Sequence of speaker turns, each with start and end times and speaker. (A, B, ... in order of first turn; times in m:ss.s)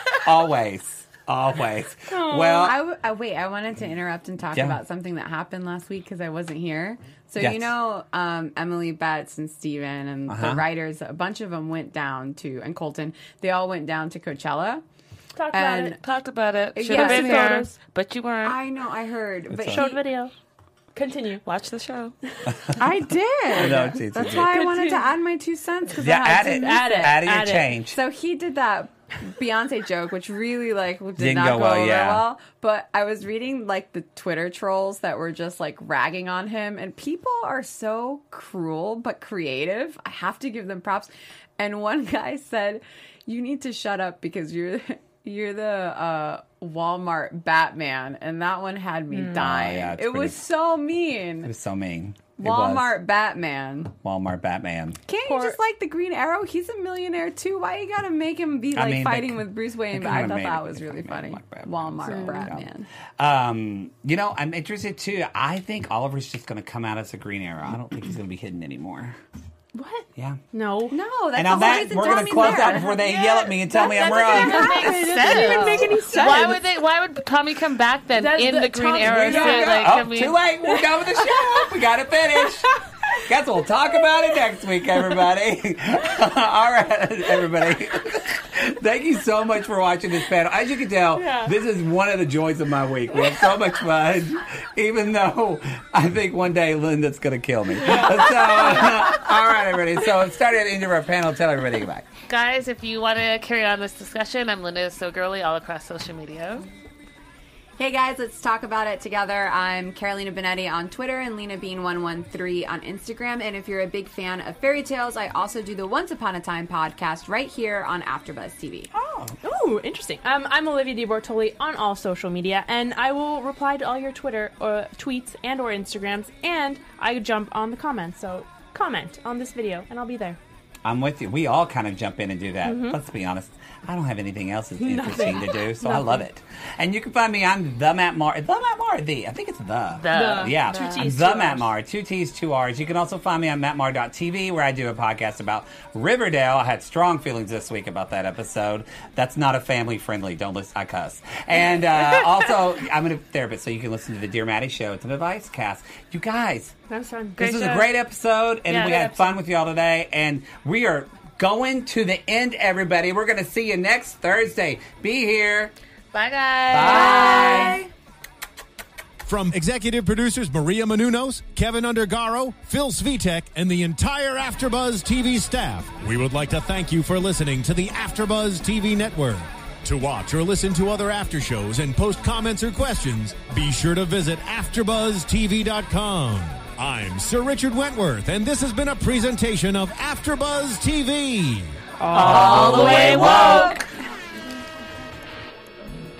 0:00.2-0:02.8 A
0:02.1-0:02.7 B
0:02.6-0:14.8 C
0:04.5-0:04.8 A
0:07.4-0:07.7 A
0:10.3-0:10.7 A
0:15.4-0:16.0 B
0:15.5-0:16.0 C
0:16.0-0:18.6 D
0:16.8-0:17.7 C
0:16.9-0:17.7 B
0:18.4-0:20.0 C
0:19.5-0:19.9 A
0:19.7-0:20.3 B
0:21.0-0:21.4 B
0:21.4-0:22.2 D
0:22.8-0:23.8 B
0:22.8-0:27.2 C
0:23.5-0:24.6 A
0:24.3-0:25.1 B
0:26.0-0:28.0 A
0:26.4-0:27.7 B
0:27.8-0:51.5 C
0:31.2-0:32.2 A
0:49.1-0:49.5 B
0:49.3-0:50.4 A
0:51.4-0:53.0 A
0:52.4-0:53.9 C
0:54.0-0:55.0 A
0:55.1-1:02.9 C
0:55.2-0:55.6 B
0:58.8-1:09.2 A
1:02.1-1:02.5 B
1:09.7-1:11.0 B
1:10.2-1:10.4 A
1:10.9-1:12.9 C
1:11.4-1:14.8 A
1:12.2-1:16.6 B
1:13.8-1:16.5 C
1:14.2-1:20.4 D
1:18.2-1:20.0 B
1:19.0-1:42.1 A
1:20.7-1:21.6 B
1:31.2-1:31.6 B
1:37.8-1:39.0 B
1:42.3-1:46.7 D
1:47.8-1:58.9 C
1:58.9-2:10.4 B
2:10.8-2:36.7 A
2:12.6-2:13.0 B
2:14.8-2:16.2 B
2:20.0-2:21.1 D
2:20.1-2:21.7 B
2:36.9-2:37.4 B
2:37.4-2:45.7 A
2:37.4-2:37.9 D
2:38.7-2:39.3 D
2:46.1-2:47.8 D
2:46.7-2:47.8 A
2:46.8-2:47.9 C
2:46.9-2:47.4 B
2:49.2-3:11.8 E
3:12.0-3:13.8 B
3:12.1-3:13.9 D
3:12.2-3:13.8 A
3:13.1-3:13.7 C